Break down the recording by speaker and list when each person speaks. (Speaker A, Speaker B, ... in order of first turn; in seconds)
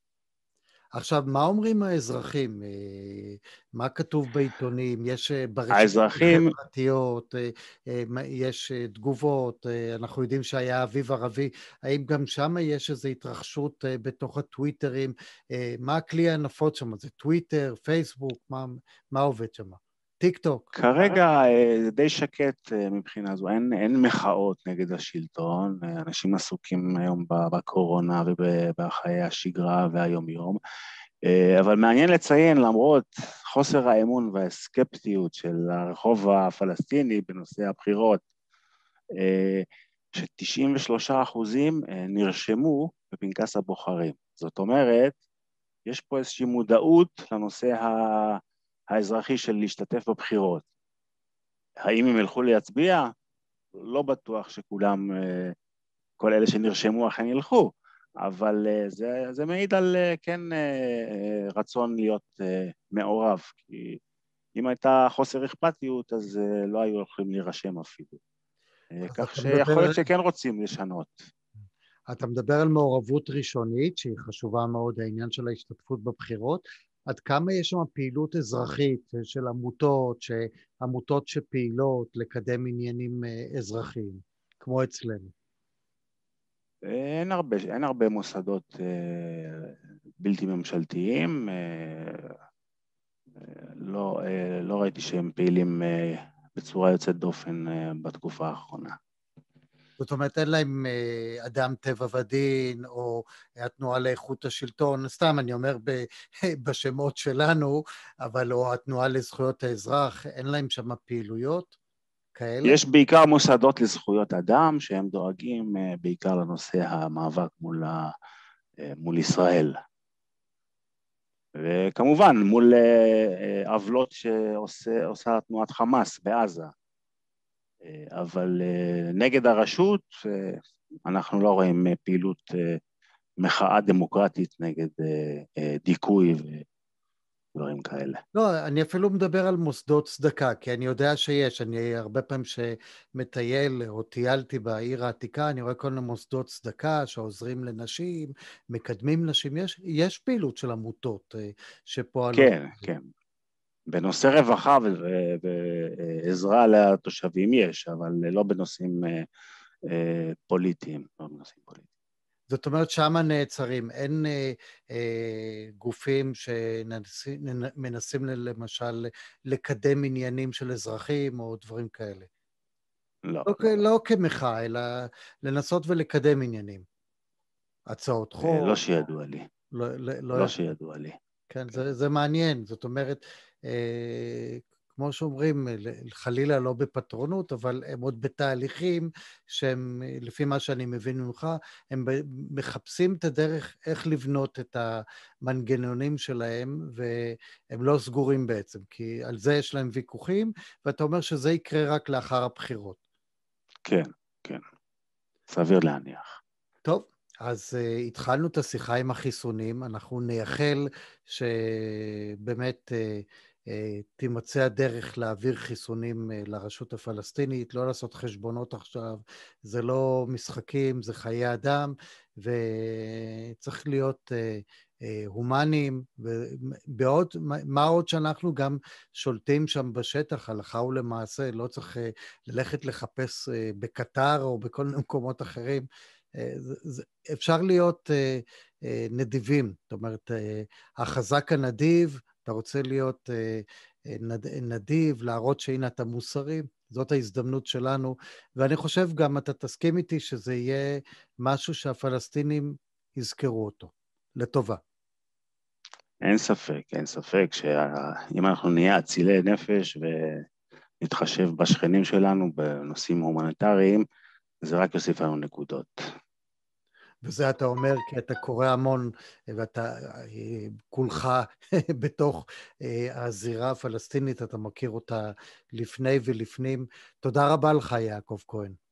Speaker A: 0.9-21.2, 69.1-70.0, 72.1-85.3, 100.0-111.7, 112.3-112.8, 138.3-152.8, 162.5-172.3, 173.5-176.8, 177.9-178.8, 179.8-180.5, 181.5-203.0, 206.8-254.8, 267.2-278.8
Speaker B: 5.7-6.5, 20.8-30.6, 31.3-38.2, 39.2-45.2, 45.9-50.7, 51.9-53.1, 53.8-55.5, 56.2-57.7, 58.2-64.0, 64.6-68.2, 68.9-71.2, 86.9-92.3, 93.4-98.9, 112.6-118.1, 118.8-119.7, 121.6-126.7, 127.8-132.8, 133.4-136.6, 137.6-138.2, 152.3-153.1, 153.9-159.2, 159.9-161.9, 173.3-173.8, 178.4-179.4, 180.3-181.2, 203.9-204.6, 205.5-206.4, 256.2-260.4, 261.0-264.0, 264.6-266.0